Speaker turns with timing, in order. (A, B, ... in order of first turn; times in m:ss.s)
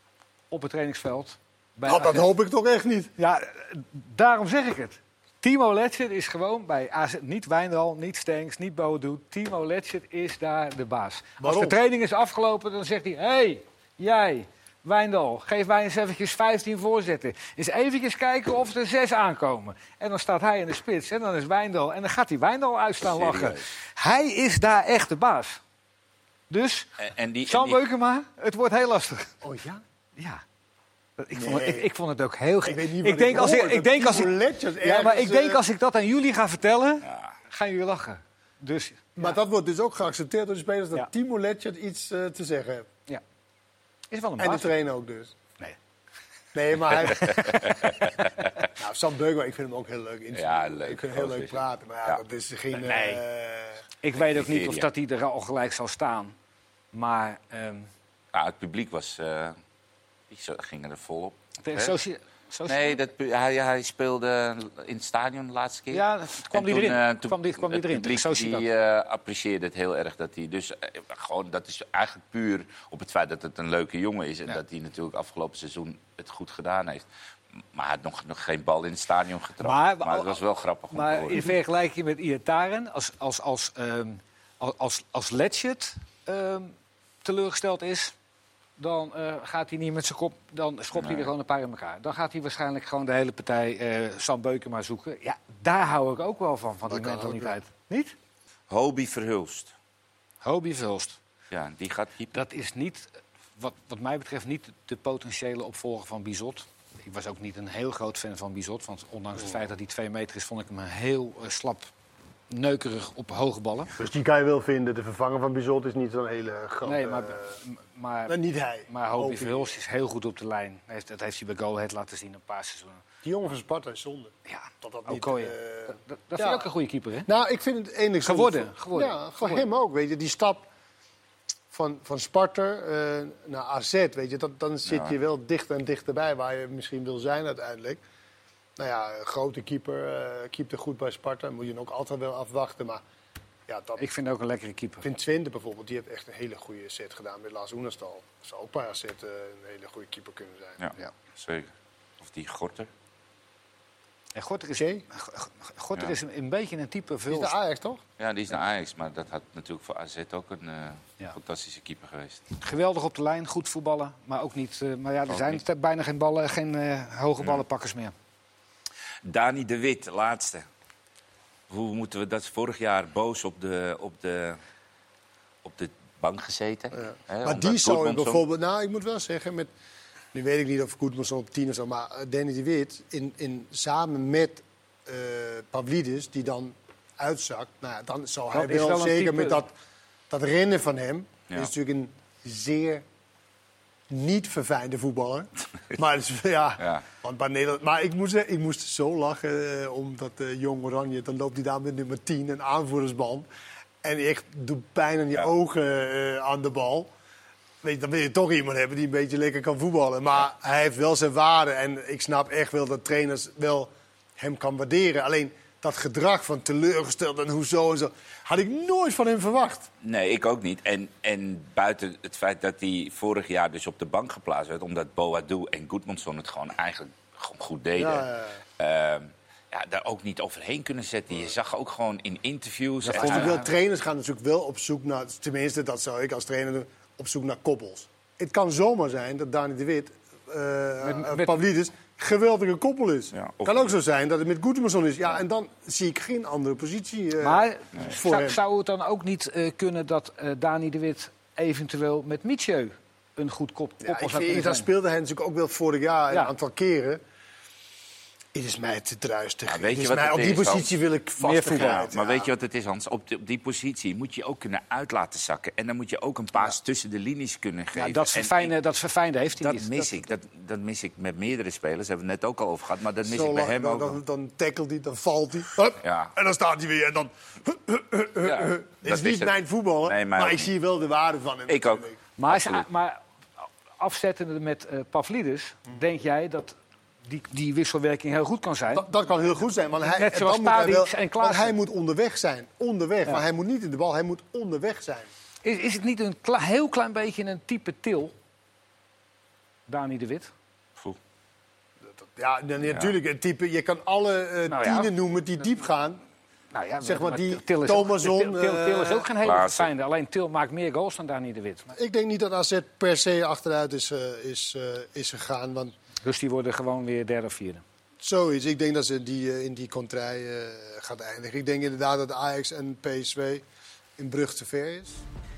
0:00.5-0:02.2 A
0:01.9-0:03.1 B
0:03.2-0:25.6 A
0:11.4-0:11.8 B
0:23.0-0:23.7 C
0:26.5-0:26.9 A
0:27.0-0:27.8 C
0:27.4-0:29.3 A
0:29.4-0:29.8 B
0:30.2-0:30.4 A
0:31.2-0:39.4 A
0:31.4-0:31.9 B
0:32.6-0:35.6 B
0:39.2-0:42.9 B
0:44.1-0:44.8 A
0:44.4-0:45.4 B
0:46.5-0:47.8 B
0:47.2-0:47.6 A
0:47.4-0:48.3 C
0:48.8-0:53.8 B
0:50.3-0:52.2 C
0:52.8-0:53.2 A
0:54.0-0:56.3 A
0:54.2-0:54.9 C
0:56.9-0:57.9 A
0:58.3-0:59.6 C
1:00.3-1:02.0 C
1:01.6-1:03.0 A
1:02.7-1:17.1 C
1:05.9-1:08.7 A
1:17.7-1:21.5 C
1:19.6-1:28.1 A
1:28.8-1:38.2 A
1:31.0-1:31.3 C
1:36.9-1:37.6 B
1:38.7-1:39.7 C
1:40.4-1:41.2 A
1:41.5-1:42.4 C
1:42.3-1:51.9 A
1:52.5-1:53.9 A
1:54.0-1:57.6 B
1:56.8-2:03.0 A
1:58.3-1:59.8 B
2:03.2-2:06.7 B
2:04.5-2:07.3 A
2:07.3-2:10.7 B
2:08.2-2:09.6 A
2:11.7-2:18.0 B
2:14.9-2:15.1 C
2:18.8-2:23.0 B
2:23.7-2:24.0 B
2:24.0-2:25.0 A
2:25.0-2:30.8 B
2:30.8-2:32.9 C
2:34.4-2:37.6 A
2:34.7-2:35.0 B
2:37.3-2:38.0 B
2:38.2-2:42.5 C
2:42.6-2:48.1 A
2:45.3-2:45.6 C
2:49.3-2:50.6 C
2:51.7-2:54.6 C
2:55.6-2:58.4 C
2:56.9-2:59.7 B
3:00.3-3:09.7 B
3:08.5-3:09.6 A
3:10.3-3:13.0 B
3:14.1-3:23.5 B
3:24.0-3:27.1 B
3:27.8-3:39.9 B
3:40.0-3:48.3 C
3:48.0-3:48.6 B
3:48.8-3:53.6 C
3:53.0-3:53.7 A
3:53.1-4:08.6 B
4:01.0-4:01.6 A
4:03.3-4:03.9 C
4:07.4-4:14.9 A
4:14.0-4:17.2 B
4:18.6-4:22.5 B
4:19.7-4:21.0 C
4:21.4-4:22.1 A
4:21.7-4:28.7 C
4:28.0-4:30.2 A
4:29.6-4:34.2 C
4:33.2-4:42.2 B
4:36.0-4:36.3 C
4:38.4-4:40.7 C
4:41.7-4:42.9 C
4:42.4-4:43.2 A
4:44.0-4:49.1 A
4:48.9-4:55.3 B
4:50.0-4:51.8 A
4:55.6-4:58.3 A
4:59.9-5:00.5 A
5:02.2-5:06.2 B
5:04.7-5:05.1 A
5:06.7-5:12.0 A
5:07.0-5:09.3 B
5:09.4-5:09.9 C
5:12.0-5:16.0 B
5:16.2-5:17.8 A
5:18.2-5:23.6 B
5:24.2-5:25.2 B